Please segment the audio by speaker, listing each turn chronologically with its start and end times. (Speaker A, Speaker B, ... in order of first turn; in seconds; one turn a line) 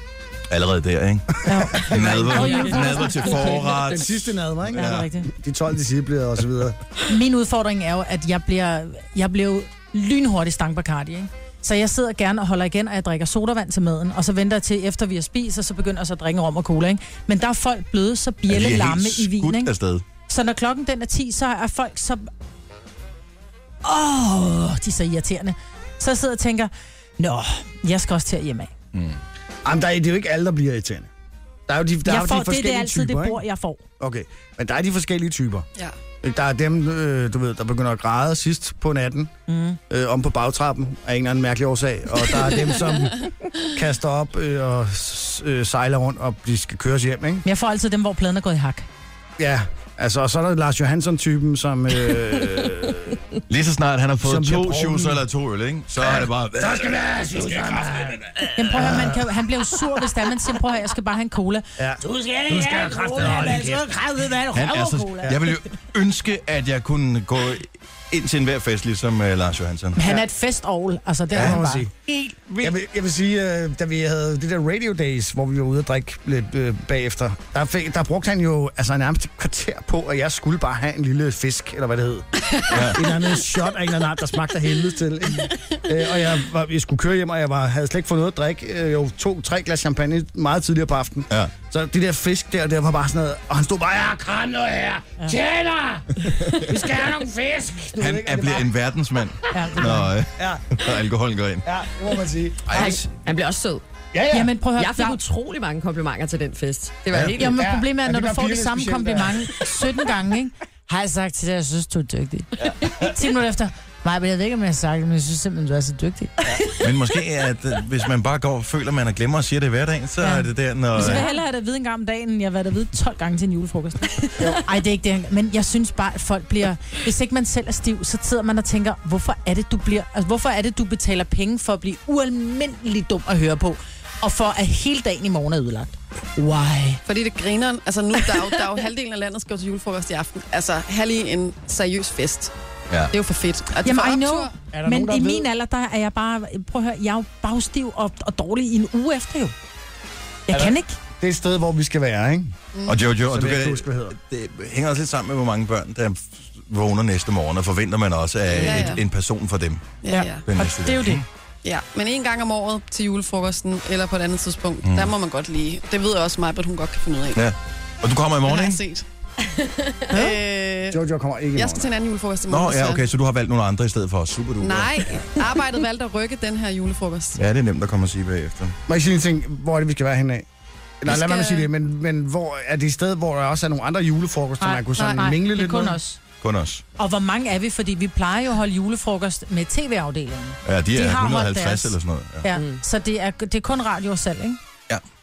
Speaker A: 0.5-5.1
Speaker B: 1.4-3.6
Speaker C: 2.1-3.5
Speaker D: 3.3-6.8
Speaker B: 4.7-5.3
Speaker B: 7.1-19.7
Speaker A: 18.5-20.0
Speaker B: 20.3-22.3
Speaker B: 23.8-28.7
Speaker A: 28.9-29.2
Speaker D: 29.6-31.1
Speaker D: 31.7-33.4
Speaker B: 32.0-33.8
Speaker D: 34.0-35.6
Speaker D: 36.2-39.3
Speaker B: 39.5-39.8
Speaker D: 39.9-47.4
Speaker B: 47.4-48.9
Speaker D: 49.4-53.2
Speaker A: 53.5-58.1
Speaker D: 54.2-55.2
Speaker D: 56.0-59.2
Speaker B: 58.5-65.5
Speaker D: 61.8-64.0
Speaker A: 64.5-70.0
Speaker B: 70.0-71.8
Speaker A: 71.3-71.6
Speaker D: 71.3-71.9
Speaker A: 72.4-72.7
Speaker D: 72.6-98.7
Speaker A: 82.7-83.0
Speaker A: 91.3-91.5
Speaker A: 98.0-101.7
Speaker B: 99.5-100.1
Speaker D: 100.4-100.8
Speaker D: 101.6-102.9
Speaker A: 102.7-103.1
Speaker C: 102.7-103.8
Speaker D: 104.1-104.5
Speaker B: 104.3-105.2
Speaker C: 104.7-107.6
Speaker D: 107.2-109.6
Speaker B: 107.3-116.3
Speaker A: 116.8-121.2
Speaker B: 120.2-137.0
Speaker E: 137.1-142.5
Speaker E: 143.1-144.5
Speaker B: 143.8-149.5
Speaker D: 144.7-145.5
Speaker B: 150.5-151.0
Speaker D: 150.5-152.5
Speaker E: 152.7-153.0
Speaker A: 152.8-161.2
Speaker D: 153.2-154.2
Speaker E: 158.5-159.0
Speaker E: 160.0-160.4
Speaker B: 160.1-161.2
Speaker E: 161.6-167.4
Speaker A: 164.8-165.1
Speaker A: 167.3-168.8
Speaker E: 168.4-169.0
Speaker C: 169.4-170.1
Speaker E: 170.1-171.0
Speaker D: 170.9-171.9
Speaker E: 171.5-173.0
Speaker A: 172.5-175.2
Speaker E: 174.6-177.4
Speaker A: 177.3-178.8
Speaker D: 178.9-180.4
Speaker D: 181.0-186.0
Speaker E: 181.1-181.7
Speaker B: 184.6-186.2
Speaker E: 185.0-185.3
Speaker A: 186.4-186.8
Speaker B: 187.0-194.6
Speaker A: 190.6-192.5
Speaker C: 192.5-192.8